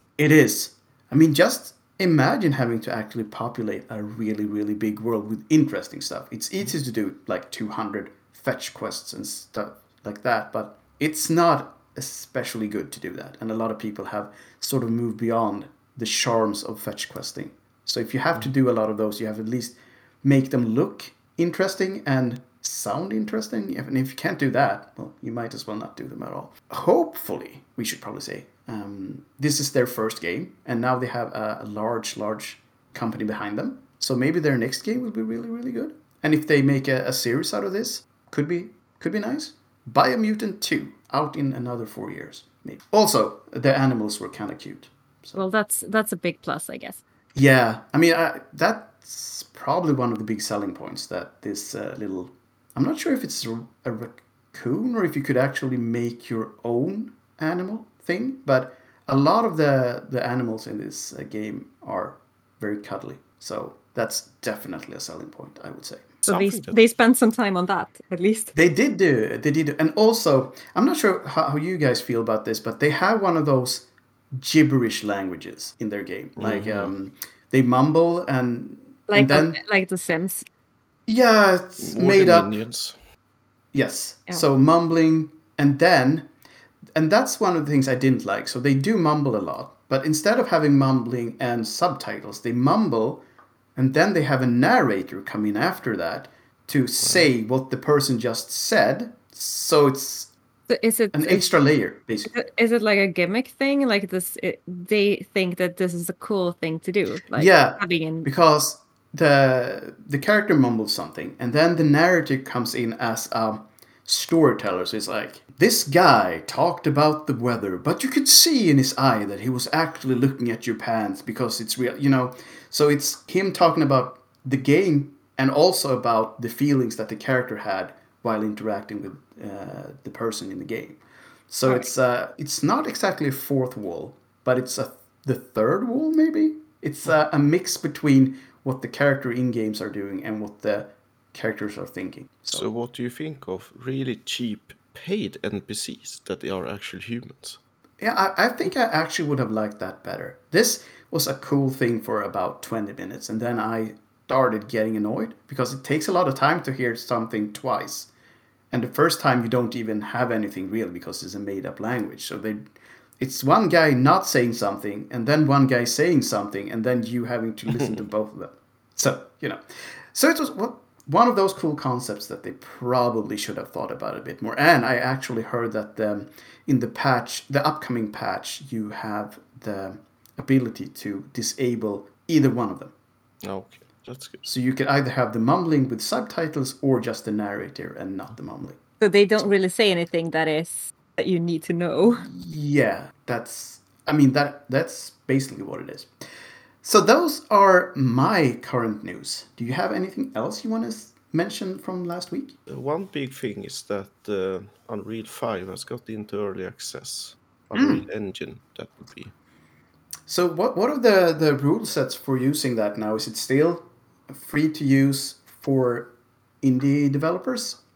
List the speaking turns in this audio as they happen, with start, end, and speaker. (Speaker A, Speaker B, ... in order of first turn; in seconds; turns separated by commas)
Speaker A: 0.2-45.4, Speaker B: 45.3-47.0, Speaker A: 47.3-66.1, Speaker C: 66.2-66.8, Speaker B: 66.3-68.5, Speaker A: 68.5-79.6, Speaker C: 76.4-76.9, Speaker B: 79.1-80.5, Speaker A: 81.1-82.5, Speaker C: 81.8-83.0, Speaker A: 83.7-86.3, Speaker A: 86.9-93.2, Speaker A: 93.8-100.3, Speaker C: 97.0-97.3, Speaker B: 100.7-101.5, Speaker A: 101.1-102.3, Speaker B: 102.3-108.3, Speaker A: 107.3-142.7, Speaker C: 142.5-147.6, Speaker A: 148.0-158.1, Speaker A: 158.7-182.9, Speaker C: 167.7-168.0, Speaker C: 183.4-184.5, Speaker A: 184.4-188.8, Speaker B: 189.0-192.3, Speaker A: 192.1-196.1, Speaker A: 196.8-202.6, Speaker C: 202.7-209.3, Speaker A: 207.7-208.1, Speaker A: 210.3-217.8